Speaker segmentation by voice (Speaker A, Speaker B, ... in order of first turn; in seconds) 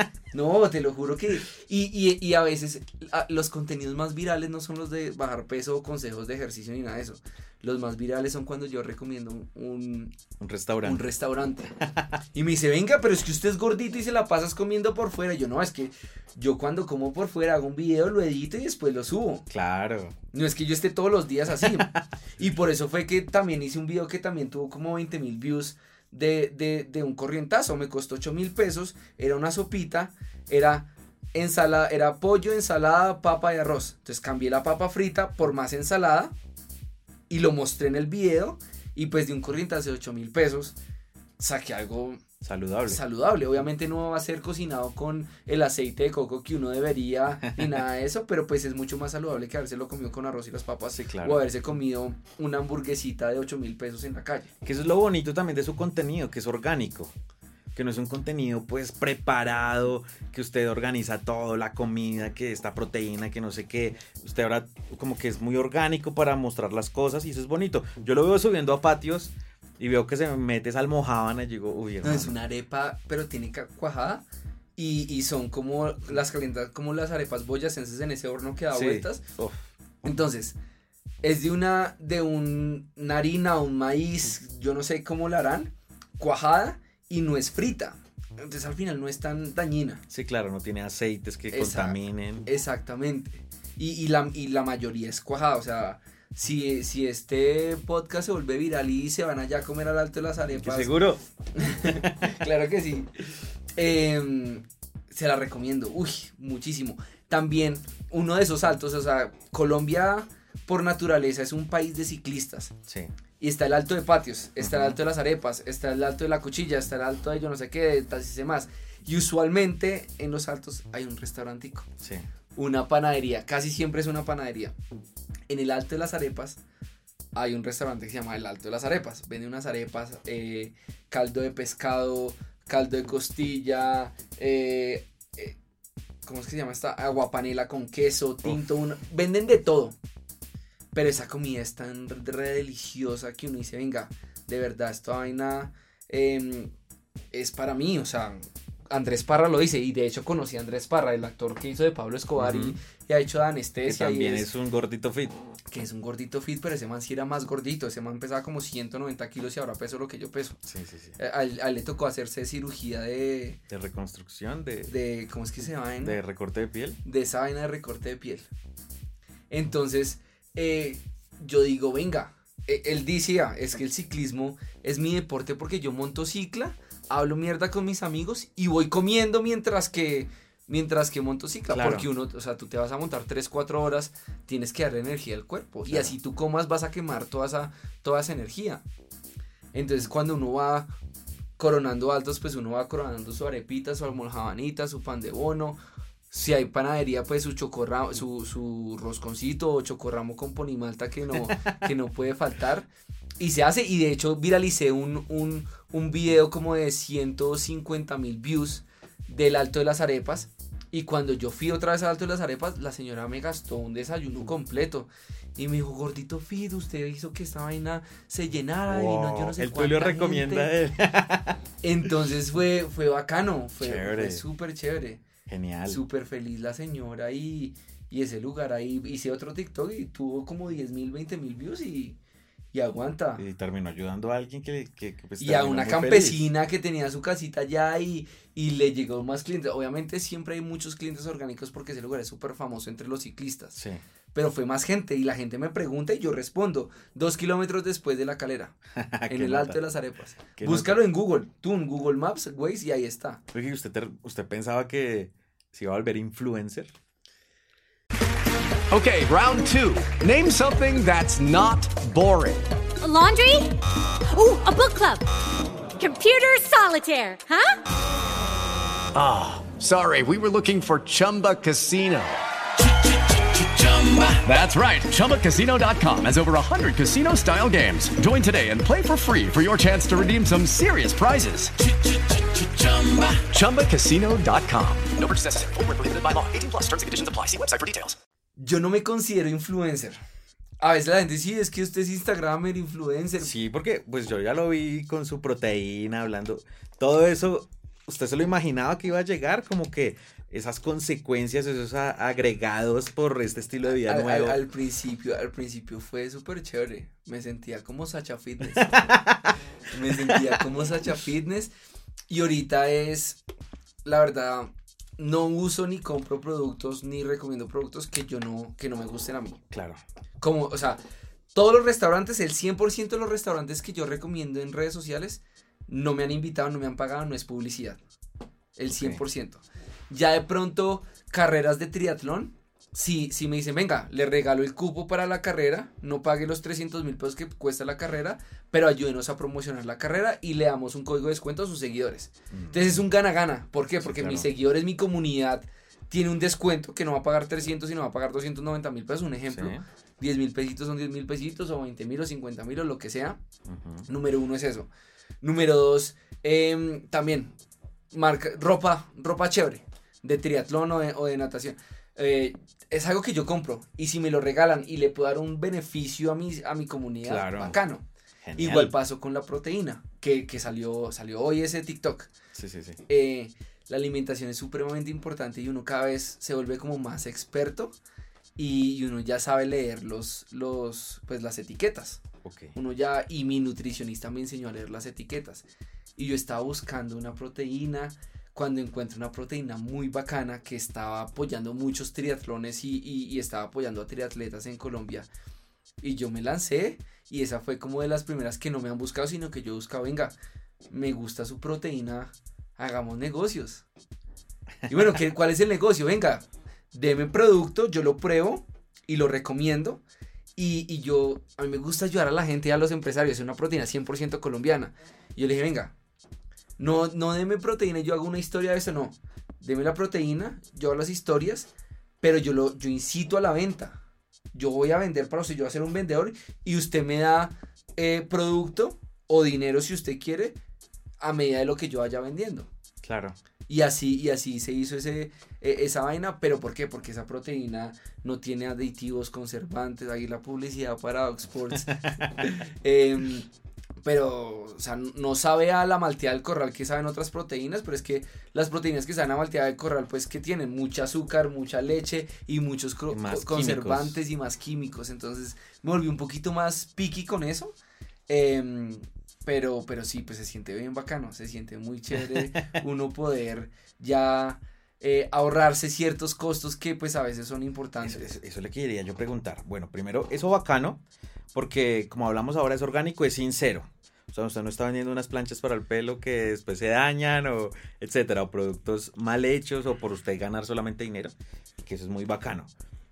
Speaker A: 0.3-10.1, 10.8-11.7, 12.3-19.4, 20.3-36.3, 37.3-40.8, 41.4-42.2, 42.9-54.5, 72.0-74.2, 74.8-79.2, 80.0-80.5, 81.2-90.0, 91.5-100.9, 101.5-103.1, 103.8-112.7, 113.4-121.9, 122.5-124.7, 125.5-126.6, 127.3-135.5, 136.2-139.9, 140.9-146.7, 147.3-154.5, 155.7-160.6, 161.2-163.6, 164.9-166.2, 167.0-168.5, 169.5-188.8, 189.7-190.9, 191.6-195.8, 196.3-202.9, 203.4-220.7, 221.8-225.2, 225.8-232.2, 232.7-233.4, 235.4-243.8, 244.3-248.8, 249.3-253.4, 288.6-290.2, 290.8-293.5, 304.0-309.0, 309.9-311.7, 312.3-313.4, 314.0-319.6, 320.4-321.0, 321.5-328.0, 328.8-353.4, 354.1-354.9, 355.4-357.5, 358.1-368.1, 368.6-372.3, 373.1-377.9, 378.6-382.2, 382.7-385.6, 386.2-395.3, 396.0-400.3, 400.9-403.8, 404.9-410.0, 410.6-415.9, 416.8-421.7, 422.2-424.0, 424.5-430.6, 431.2-432.7, 433.7-443.5, 444.0-457.7, 458.3-468.4
Speaker B: 10.4-11.0, 11.8-12.1, 19.5-20.1, 21.6-22.1, 42.4-43.0, 47.4-47.7, 50.9-51.4, 54.6-57.1, 57.7-72.3, 78.7-79.7, 90.1-92.5, 100.5-101.2, 101.8-102.3, 112.9-113.1, 114.6-115.0, 122.0-122.2, 152.3-152.8, 153.8-155.4, 160.6-161.2, 163.7-164.9, 166.0-167.0, 181.7-182.1, 185.9-186.1, 201.3-201.9, 218.9-221.6, 223.8-224.4, 225.5-226.0, 233.4-236.5, 243.8-244.0, 248.9-249.8, 250.6-251.0, 253.5-256.9, 293.4-304.6, 308.7-309.5, 310.1-310.6, 319.7-320.0, 328.9-329.2, 342.5-343.0, 344.0-344.5, 349.5-349.8, 353.7-354.0, 367.2-367.8, 368.4-368.9, 372.5-373.0, 382.4-382.8, 433.0-433.4, 441.7-442.5, 453.1-454.2, 462.1-462.7, 468.0-471.0, 471.5-482.7
Speaker C: 258.9-262.6, 269.1-272.3, 273.7-281.7, 282.8-285.1
Speaker D: 263.0-263.8, 264.3-265.2, 265.9-267.8
Speaker E: 285.1-288.2